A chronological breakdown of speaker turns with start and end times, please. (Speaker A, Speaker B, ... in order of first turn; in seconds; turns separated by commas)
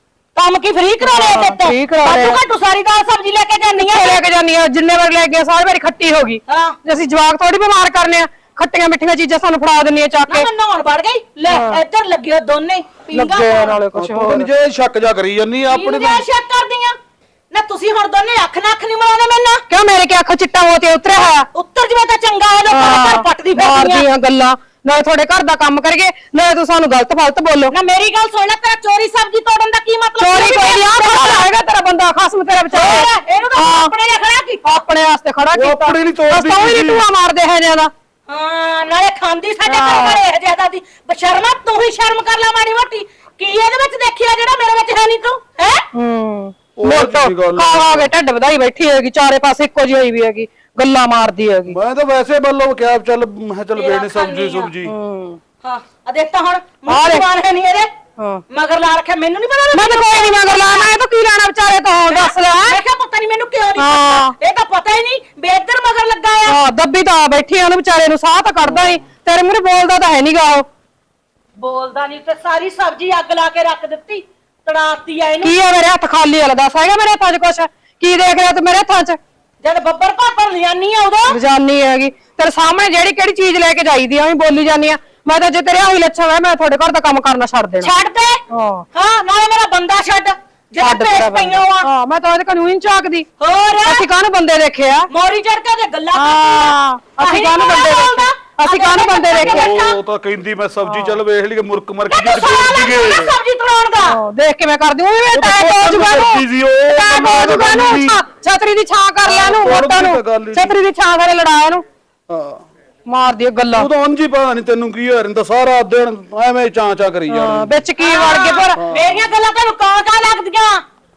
Speaker A: 0.3-4.2, Speaker B: 1.0-2.4, Speaker B: 3.8-10.5, Speaker A: 6.5-6.8, Speaker A: 10.3-13.8, Speaker B: 11.5-11.8, Speaker B: 13.1-14.5, Speaker C: 13.9-16.2, Speaker A: 15.7-16.9, Speaker A: 17.5-19.6, Speaker B: 19.7-21.5, Speaker A: 21.5-24.1, Speaker B: 22.7-27.7, Speaker A: 27.7-31.4, Speaker B: 30.2-33.9, Speaker A: 32.7-34.7, Speaker B: 34.6-37.9, Speaker C: 35.5-37.0, Speaker A: 38.3-45.8, Speaker B: 39.6-40.2, Speaker B: 45.9-51.8, Speaker C: 46.8-48.1, Speaker C: 51.7-54.9, Speaker A: 53.8-54.7, Speaker B: 54.8-55.4, Speaker A: 55.6-57.9, Speaker B: 56.9-57.3, Speaker B: 58.2-58.4, Speaker A: 58.5-60.9, Speaker B: 59.7-62.8, Speaker A: 62.1-66.6, Speaker B: 63.8-64.3, Speaker B: 66.5-70.7, Speaker C: 68.6-69.0, Speaker A: 71.6-75.6, Speaker B: 75.4-79.2, Speaker A: 79.6-81.4, Speaker B: 81.3-87.9, Speaker A: 87.8-88.4, Speaker B: 88.5-88.8, Speaker A: 88.9-91.9, Speaker B: 90.8-93.3, Speaker A: 93.4-94.1, Speaker B: 93.8-95.1, Speaker A: 95.1-100.0, Speaker B: 96.1-99.7, Speaker C: 99.4-103.3, Speaker B: 100.8-101.2, Speaker A: 102.1-104.2, Speaker B: 104.0-111.8, Speaker C: 105.3-108.2, Speaker C: 109.2-110.8, Speaker C: 112.3-112.7, Speaker B: 113.0-113.9, Speaker C: 113.7-117.8, Speaker B: 117.3-118.8, Speaker A: 118.0-120.8, Speaker C: 118.8-119.3